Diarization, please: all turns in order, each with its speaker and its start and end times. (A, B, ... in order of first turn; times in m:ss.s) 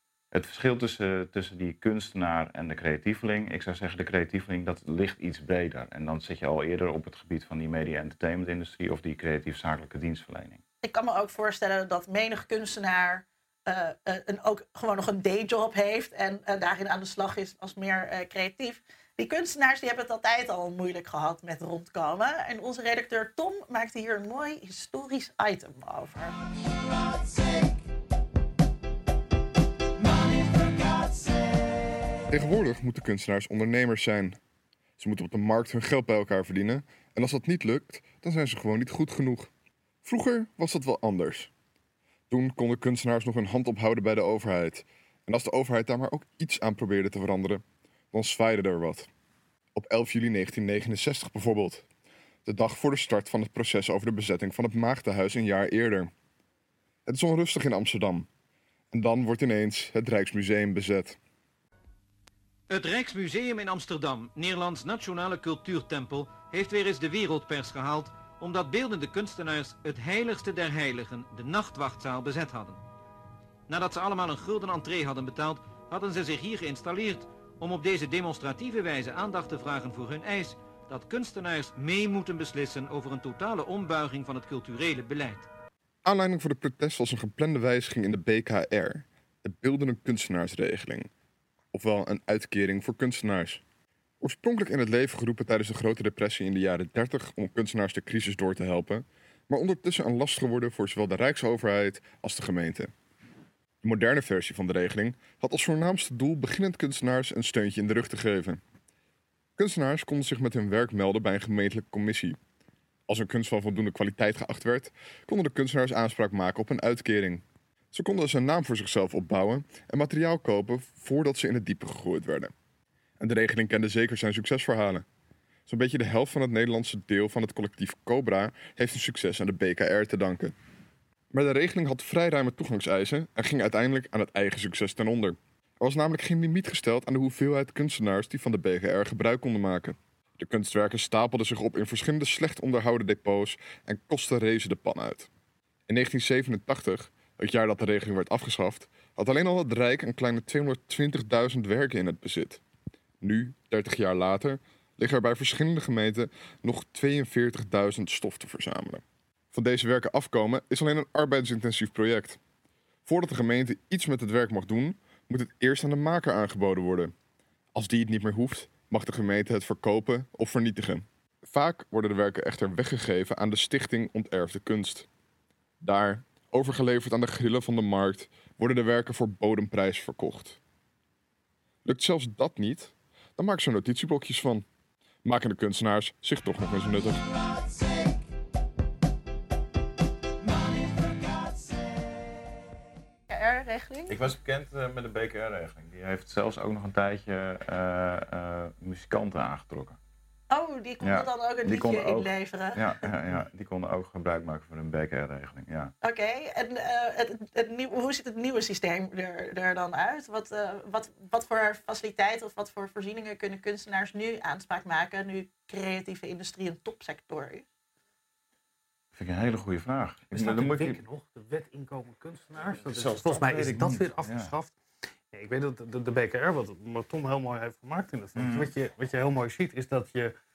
0:00.3-0:10.6 A
0:10.8-0:26.4 B
0:32.3-0:34.4 C
0:35.0-0:39.5 C
0:40.0-0:41.5 C
0:42.3-0:49.1 C
0:49.8-0:51.8 C
0:52.4-0:56.1 C
0:57.1-0:58.3 C
0:58.9-1:01.2 C
1:02.7-1:12.8 D
1:13.7-1:25.5 D
1:26.0-1:31.1 C
1:31.7-1:33.6 C
1:34.2-1:42.9 C
1:43.8-1:48.6 C
1:49.6-1:52.4 C
1:53.1-2:02.5 C
2:03.2-2:05.0 C
2:05.7-2:10.5 C
2:11.3-2:25.3 C
2:25.9-2:32.6 C
2:33.2-2:42.4 C
2:43.1-2:47.1 C
2:47.7-2:55.1 C
2:55.8-3:00.6 C
3:01.8-3:04.6 C
3:05.2-3:07.3 C
3:13.3-3:14.2 B
3:14.1-3:20.0 A
3:20.5-3:23.0 B
3:21.0-3:25.9 A
3:26.0-3:37.6 B
3:39.1-3:41.0 A
3:40.3-3:44.7 E
3:42.7-3:44.5 A
3:45.3-3:50.3 E
3:48.4-3:48.7 A